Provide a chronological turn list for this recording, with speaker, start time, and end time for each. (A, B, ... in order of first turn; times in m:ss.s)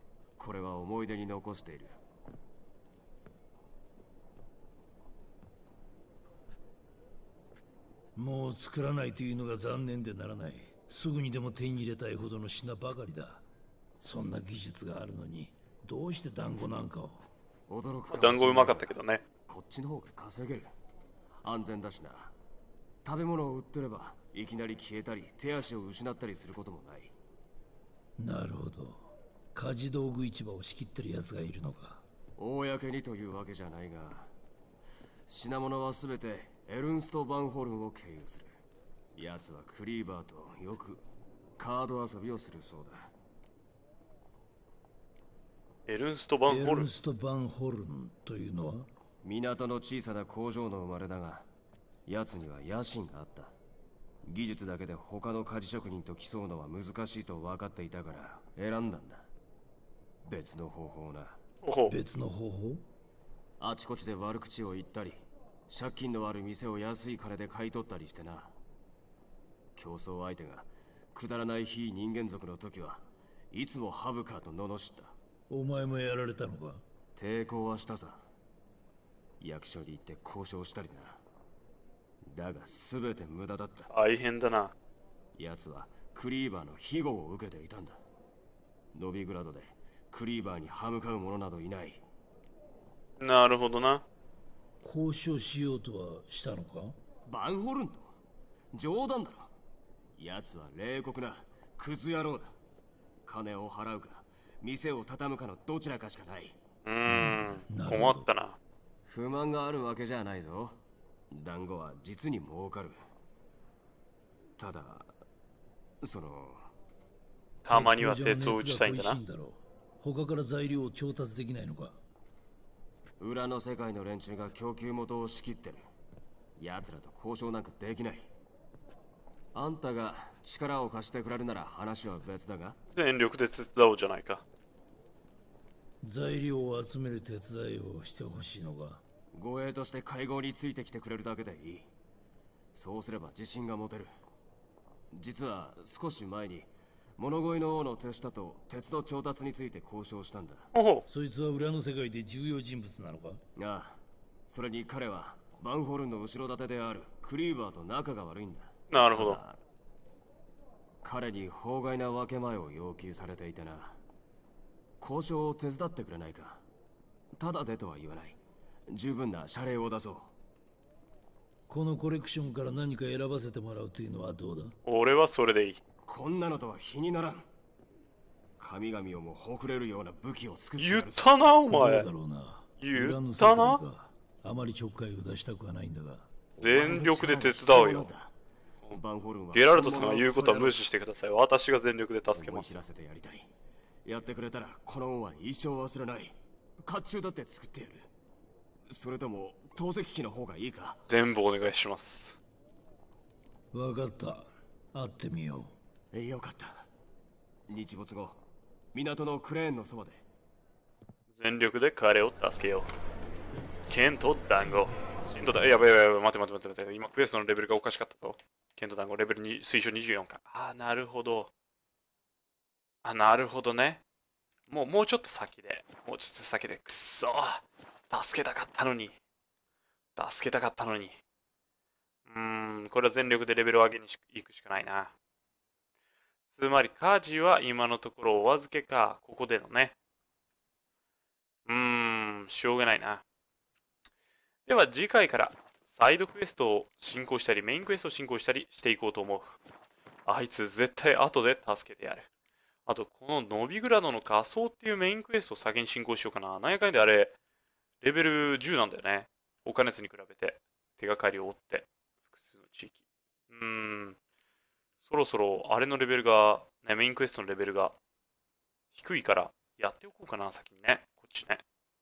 0:00.4-0:02.0 A
0:08.2-0:13.4 B
0:14.0-0:17.2 B
0:17.7-0:19.0 A
0:18.1-0:19.2 C
0:19.5-0:20.7 A
0:21.4-0:22.3 A
0:23.0-0:27.1 A
0:28.2-0:32.0 B
0:32.4-0:34.3 A
0:35.3-0:38.5 A
0:39.2-0:41.0 A
0:41.6-0:43.1 A
0:45.9-0:46.9 C
0:46.5-0:48.9 B
0:49.2-0:51.4 A
0:52.1-0:53.5 A
0:54.2-0:59.3 A
1:00.2-1:01.4 A
1:01.6-1:02.0 C
1:01.9-1:02.8 B
1:03.6-1:08.5 A
1:09.8-1:15.1 A
1:15.5-1:16.8 B
1:17.2-1:18.2 A
1:19.4-1:21.2 A
1:22.3-1:23.9 A
1:23.9-1:24.7 C
1:25.4-1:28.0 A
1:28.9-1:32.0 A
1:33.2-1:34.0 C
1:34.8-1:37.0 B
1:37.3-1:38.1 A
1:38.7-1:39.5 A
1:40.2-1:42.5 A
1:43.3-1:46.6 A
1:46.9-1:48.6 C
1:47.1-1:48.3 B
1:49.1-1:50.8 A
1:51.3-1:53.0 A
1:54.6-1:55.1 A
1:56.0-1:56.7 A
1:57.6-1:59.2 C
1:57.7-2:02.0 B
2:03.2-2:05.8 A
2:06.6-2:08.3 A
2:09.5-2:12.8 A
2:12.9-2:14.4 C
2:16.0-2:19.0 B
2:19.3-2:21.9 A
2:22.7-2:24.1 A
2:25.1-2:30.7 A
2:30.7-2:31.0 C
2:31.1-2:33.4 B
2:33.6-2:34.0 A
2:34.5-2:39.6 A
2:38.9-2:39.4 C
2:41.0-2:44.0 A
2:45.0-2:46.6 A
2:47.4-2:48.4 A
2:48.9-2:50.3 A
2:51.7-2:54.8 B
2:54.8-2:55.8 C
2:56.1-2:57.5 A
2:58.6-3:01.3 A
3:00.8-3:02.1 C
3:01.7-3:06.3 B
3:02.8-3:03.8 C
3:06.6-3:08.1 C
3:06.6-3:08.3 A
3:08.9-3:10.8 A
3:09.5-3:12.8 C
3:12.3-3:13.5 A
3:14.0-3:18.1 A
3:18.9-3:21.0 A
3:21.1-3:22.4 C
3:23.7-3:25.8 B
3:26.1-3:26.9 A
3:27.7-3:28.4 A
3:28.9-3:30.2 A
3:31.3-3:32.9 C
3:33.9-3:41.5 C
3:43.0-3:44.0 C
3:44.7-3:49.2 C
3:50.2-3:51.2 C
3:52.3-3:55.1 C
3:56.5-4:00.0 C
4:01.7-4:03.2 C
4:04.7-4:09.6 C
4:10.3-4:12.3 C
4:12.9-4:17.4 C
4:18.0-4:23.0 C
4:23.5-4:24.2 C
4:25.0-4:28.0 C
4:28.9-4:31.6 C